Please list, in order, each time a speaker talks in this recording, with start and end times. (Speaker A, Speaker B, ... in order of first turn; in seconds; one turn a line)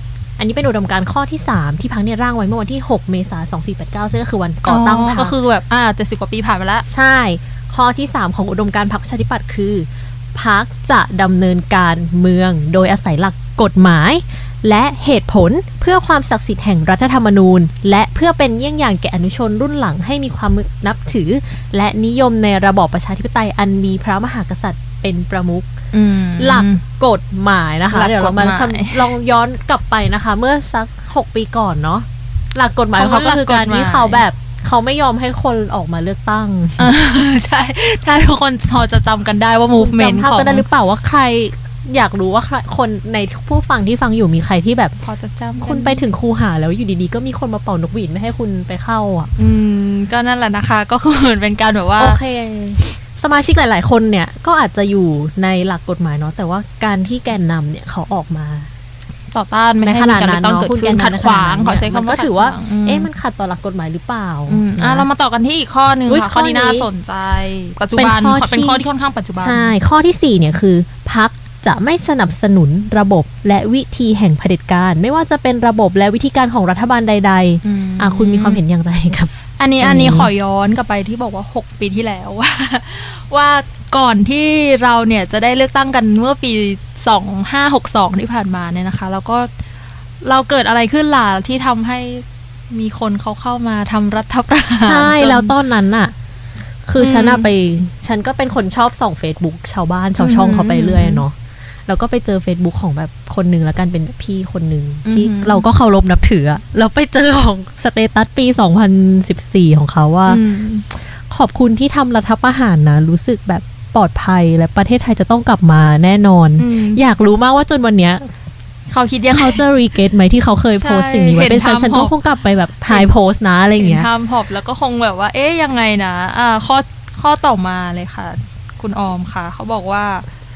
Speaker A: 0.4-5.3
Speaker B: 4.6-6.8
Speaker A: 6.8-25.7
Speaker B: 25.9-26.8
Speaker A: 26.4-36.9
Speaker B: 27.9-29.1
Speaker B: 32.9-34.2
Speaker B: 36.8-40.7
Speaker A: 39.7-45.0
Speaker B: 45.0-46.0
Speaker A: 45.6-49.3
Speaker B: 49.4-52.2
Speaker A: 52.0-58.7
Speaker B: 59.3-63.1
Speaker A: 59.8-65.1
Speaker B: 64.5-69.8
Speaker A: 66.1-66.9
Speaker A: 68.0-80.3
Speaker B: 77.6-78.6
Speaker B: 79.6-89.5
Speaker B: 90.2-95.5
Speaker A: 94.8-96.1
Speaker A: 96.8-101.3
Speaker B: 97.0-97.5
Speaker B: 100.2-101.2
Speaker A: 101.8-110.4
Speaker B: 105.0-105.7
Speaker B: 110.3-110.8
Speaker A: 111.0-118.3
Speaker B: 116.6-117.1
Speaker B: 118.9-119.6
Speaker A: 119.3-124.1
Speaker B: 120.7-122.2
Speaker B: 122.9-123.1
Speaker B: 123.8-130.2